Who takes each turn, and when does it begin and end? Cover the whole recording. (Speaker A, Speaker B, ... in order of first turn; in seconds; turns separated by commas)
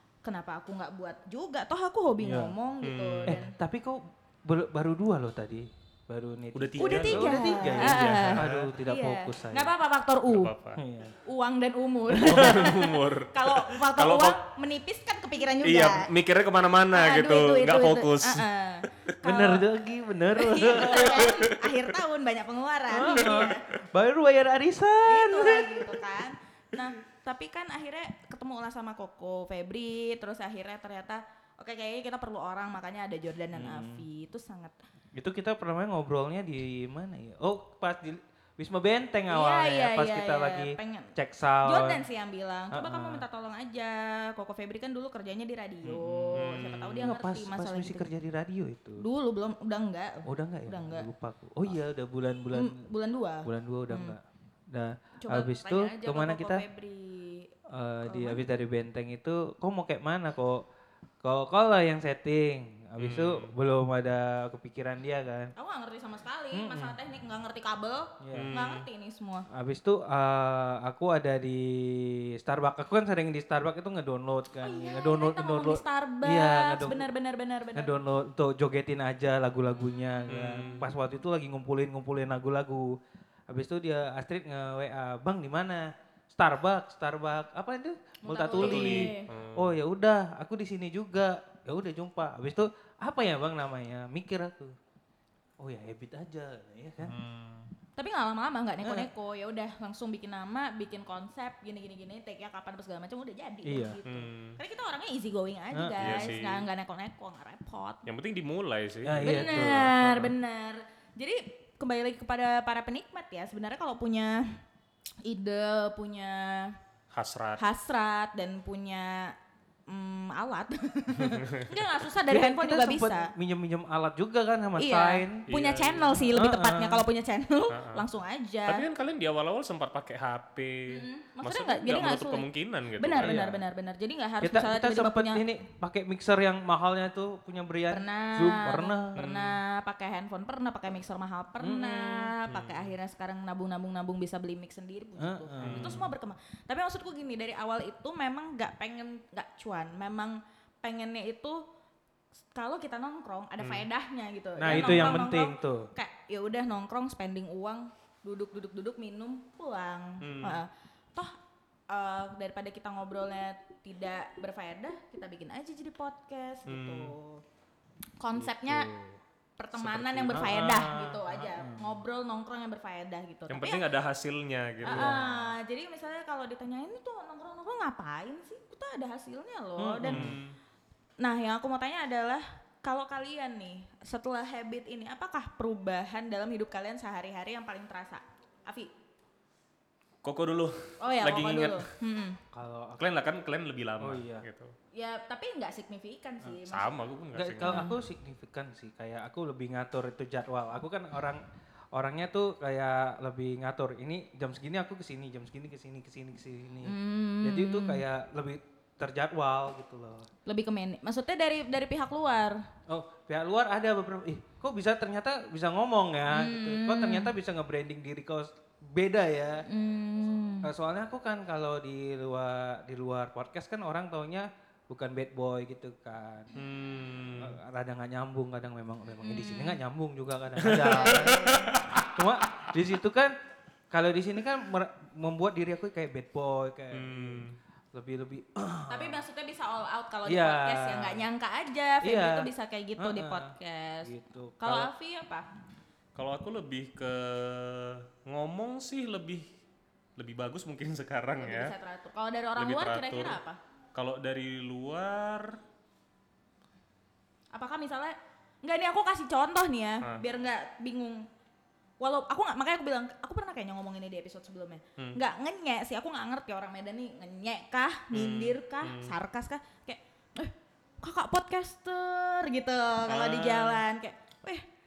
Speaker A: 0.2-3.5, Speaker B: 2.2-2.5, Speaker C: 2.8-3.4, Speaker B: 3.3-9.7, Speaker C: 6.5-8.7, Speaker A: 6.8-10.5, Speaker C: 10.3-10.8, Speaker B: 10.8-11.2, Speaker A: 11.2-16.1, Speaker B: 12.1-12.8, Speaker C: 12.3-14.4, Speaker C: 15.6-18.5, Speaker A: 16.9-19.7, Speaker B: 19.2-21.4, Speaker A: 20.4-23.6, Speaker C: 20.9-21.6, Speaker B: 22.9-25.9, Speaker A: 25.1-34.8, Speaker B: 33.5-34.0, Speaker B: 35.1-42.0, Speaker A: 39.3-48.1, Speaker B: 42.7-43.2, Speaker B: 45.8-49.0, Speaker C: 46.4-47.1, Speaker A: 49.0-51.1, Speaker B: 50.3-52.9, Speaker A: 52.5-54.2, Speaker B: 53.5-56.6, Speaker A: 55.2-57.5, Speaker B: 57.7-60.6, Speaker A: 58.0-58.5, Speaker B: 61.2-65.5, Speaker C: 63.0-63.5, Speaker A: 65.6-69.5, Speaker B: 66.5-67.0, Speaker B: 68.2-68.5, Speaker C: 68.3-68.9, Speaker B: 69.5-77.1, Speaker A: 74.6-78.0, Speaker B: 77.8-83.0, Speaker C: 80.3-80.8, Speaker B: 83.5-94.8, Speaker A: 88.2-89.3, Speaker C: 88.5-89.8, Speaker B: 95.6-97.2, Speaker C: 97.0-97.7, Speaker A: 98.0-108.0, Speaker B: 98.8-99.1, Speaker B: 103.7-104.0, Speaker C: 104.1-104.6, Speaker B: 105.7-106.3, Speaker C: 106.0-106.7, Speaker C: 108.1-110.2, Speaker B: 109.0-110.3, Speaker A: 109.2-114.6, Speaker A: 115.2-116.8, Speaker C: 117.1-117.6, Speaker A: 117.6-119.3, Speaker A: 119.9-123.3, Speaker C: 121.2-121.7, Speaker B: 122.3-125.5, Speaker A: 124.8-128.9, Speaker C: 125.5-126.3, Speaker B: 126.3-127.0, Speaker C: 127.7-128.1, Speaker C: 128.7-133.6, Speaker A: 130.9-135.4, Speaker B: 133.2-133.6, Speaker B: 134.4-139.3, Speaker A: 137.9-151.6, Speaker C: 139.2-139.6, Speaker B: 141.6-142.3, Speaker C: 142.5-142.9, Speaker B: 145.2-146.1, Speaker C: 145.6-146.1, Speaker A: 152.5-161.4, Speaker C: 153.6-153.9, Speaker B: 154.6-155.9, Speaker C: 160.2-160.6, Speaker A: 161.9-167.4, Speaker C: 166.7-167.1, Speaker A: 168.2-168.9, Speaker B: 168.3-169.2, Speaker A: 169.6-173.8, Speaker B: 169.8-172.0, Speaker C: 169.8-170.7, Speaker C: 173.5-175.2, Speaker A: 174.8-180.3, Speaker B: 174.9-175.4, Speaker B: 179.8-180.4, Speaker C: 180.0-180.6, Speaker A: 181.2-188.9, Speaker C: 190.2-191.9, Speaker A: 191.0-192.4, Speaker B: 192.5-193.1, Speaker C: 193.0-194.7, Speaker B: 194.0-194.4, Speaker A: 194.9-196.9, Speaker C: 196.6-197.9, Speaker B: 197.3-210.3, Speaker A: 197.6-198.0, Speaker A: 206.8-208.0, Speaker A: 210.5-212.7, Speaker B: 212.9-219.7, Speaker A: 216.3-217.3, Speaker A: 219.7-220.7, Speaker B: 220.6-226.5, Speaker C: 226.5-227.6, Speaker B: 227.4-233.3, Speaker A: 229.2-229.8, Speaker C: 230.6-232.1, Speaker A: 230.7-231.8, Speaker B: 233.9-239.2, Speaker C: 236.9-237.6, Speaker A: 238.9-245.5, Speaker B: 240.3-241.2, Speaker B: 242.0-244.9, Speaker C: 246.2-249.5, Speaker C: 250.2-251.7, Speaker A: 251.4-253.6, Speaker C: 252.6-253.4, Speaker C: 253.9-255.6, Speaker A: 257.5-261.3, Speaker A: 262.0-274.6, Speaker C: 268.1-269.1, Speaker C: 273.1-273.8